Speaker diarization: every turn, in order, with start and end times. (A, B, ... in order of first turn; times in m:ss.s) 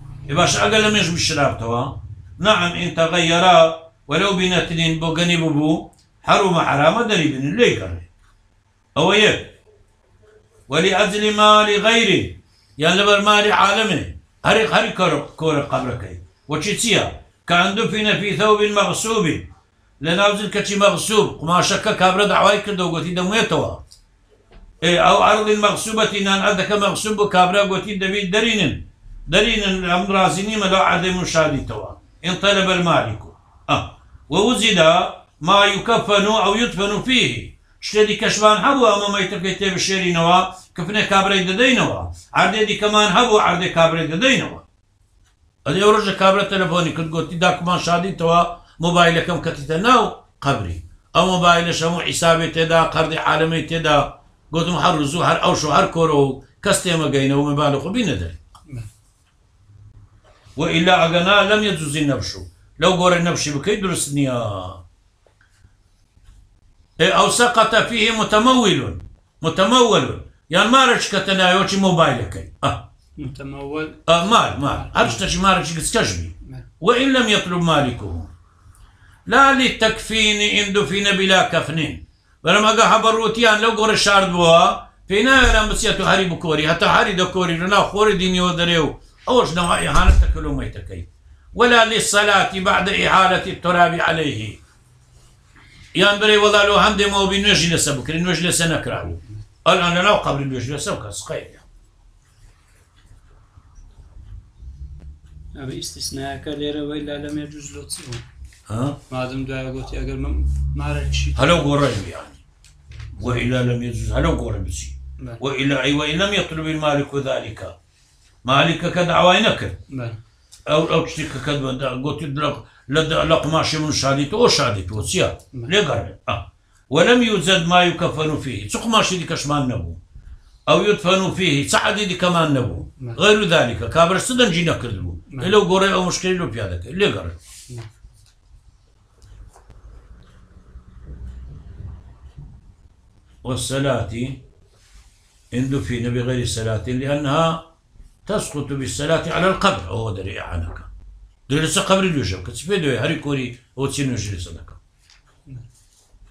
0:00.3-0:08.1 A
0:09.0-0:09.6 A
0:10.7-0:19.5 A
0:20.0-0:23.8 A
0:24.8-0:44.6 A
0:45.6-0:58.4 A
1:00.6-1:04.8 A
1:07.0-1:12.8 A
1:13.2-1:15.2 B
1:14.0-1:18.3 A
1:19.3-1:34.6 A
1:35.9-1:41.6 A
1:39.0-1:39.4 B
1:45.5-1:48.2 B
1:48.7-1:49.0 A
1:49.1-1:51.8 B
1:51.4-1:52.4 A
1:53.2-1:53.5 B
1:53.2-1:57.7 A
1:58.4-1:59.8 A
1:59.9-2:00.2 B
2:00.7-2:10.0 A
2:10.7-2:17.4 A
2:15.3-2:15.5 B
2:23.4-2:24.4 A
2:25.5-2:27.6 A
2:28.2-2:30.9 A
2:31.5-2:34.8 A